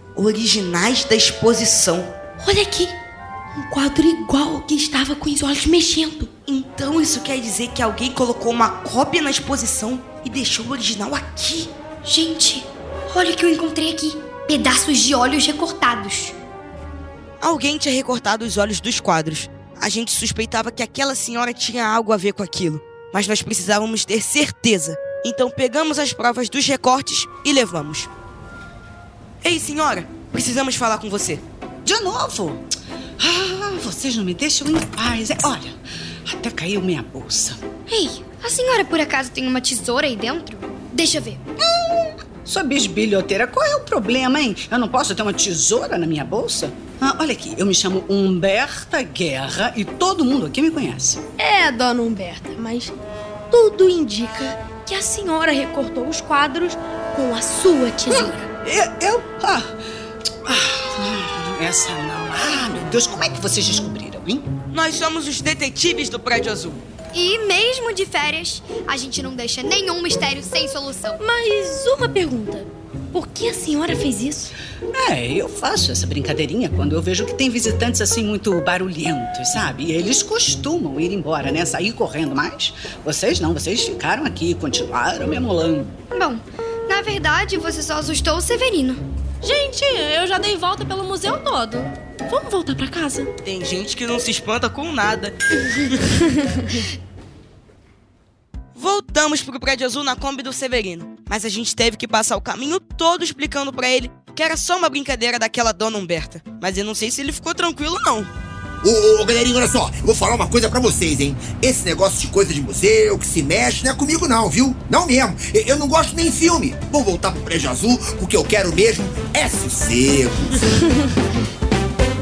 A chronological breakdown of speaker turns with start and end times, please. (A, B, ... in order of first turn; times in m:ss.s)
0:00.2-0:02.1 A
0:02.4-0:02.9 B
0:03.6-0:06.3 B
0:06.5-0:11.7 A
0:12.1-0:16.4 C
0:17.4-0:28.1 A
0:29.4-0:31.4 A
0:31.8-0:32.7 D
0:33.2-0:37.6 D
0:37.9-0:41.4 C
0:41.6-0:51.2 D
0:51.4-0:52.9 B
0:53.5-0:58.4 B
0:58.1-0:59.8 D
1:00.4-1:04.5 D
1:04.7-1:06.8 A
1:07.1-1:11.2 C
1:11.2-1:14.5 B
1:14.9-1:25.9 D
1:26.1-1:29.0 C
1:29.4-1:33.3 E
1:33.4-1:36.3 A
1:38.8-1:48.3 A
1:48.8-2:00.6 F